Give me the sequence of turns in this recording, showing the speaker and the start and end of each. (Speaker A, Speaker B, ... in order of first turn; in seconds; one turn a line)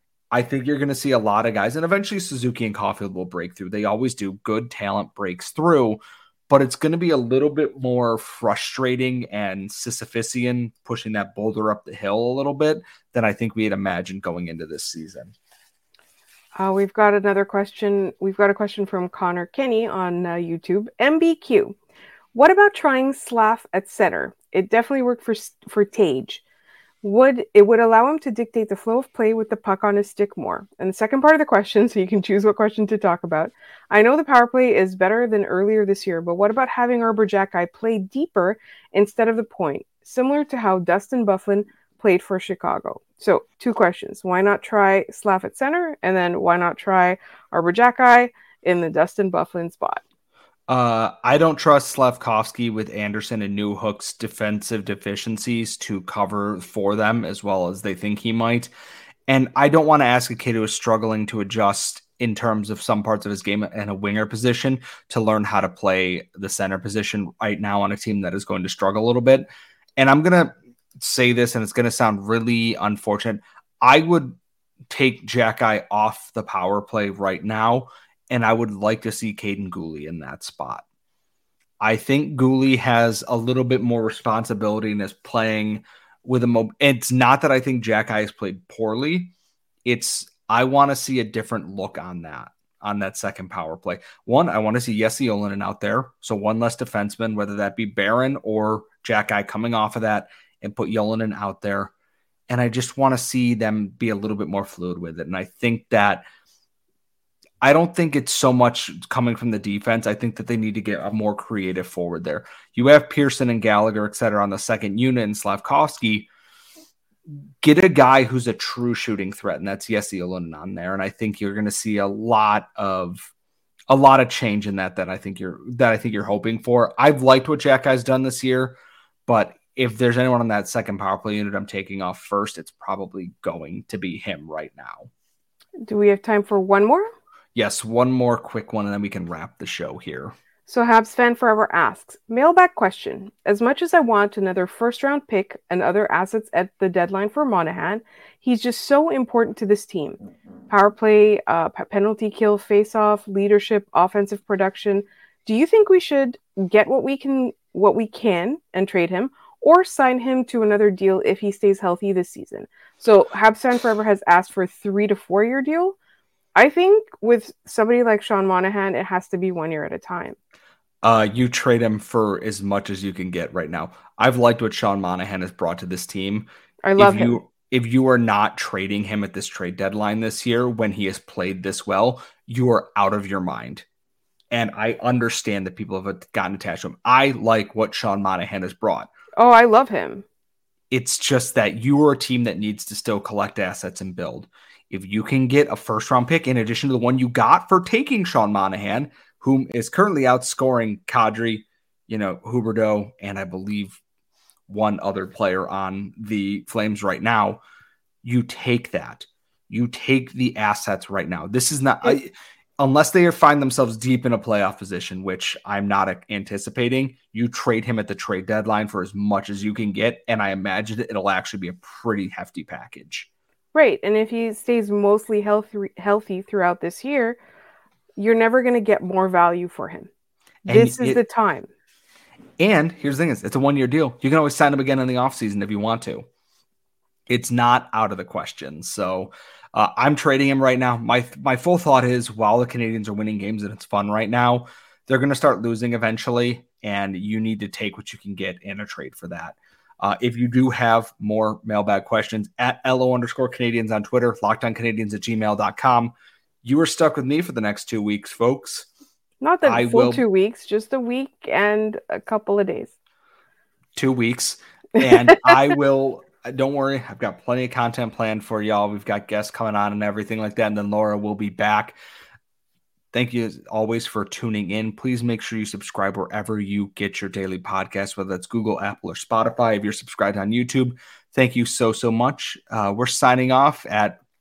Speaker A: 0.3-15.3
Speaker B: 16.6-21.8
Speaker B: 22.3-26.4
Speaker B: 27.0-50.0
Speaker A: 50.7-58.7
Speaker A: 59.3-69.5
Speaker A: 70.0-74.4
Speaker A: 74.9-80.8
Speaker A: 81.8-89.3
Speaker A: 89.8-101.9
Speaker A: 102.5-106.2
Speaker A: 107.6-116.3
Speaker A: 117.6-123.3
Speaker A: 123.9-135.1
Speaker B: 135.8-137.1
Speaker A: 137.5-140.3
Speaker B: 140.7-165.9
Speaker B: 166.5-170.4
Speaker A: 171.0-183.8
Speaker B: 176.8-177.4
Speaker A: 184.5-189.1
Speaker B: 189.3-190.2
Speaker A: 190.9-204.0
Speaker A: 204.7-207.6
Speaker A: 208.2-223.3
Speaker B: 223.7-227.4
Speaker B: 228.2-230.1
Speaker A: 230.6-231.2
Speaker B: 230.7-231.7
Speaker A: 232.6-236.2
Speaker A: 237.3-256.1
Speaker A: 256.6-258.9
Speaker B: 259.4-262.9
Speaker A: 259.6-260.2
Speaker A: 263.9-272.0
Speaker A: 273.1-284.2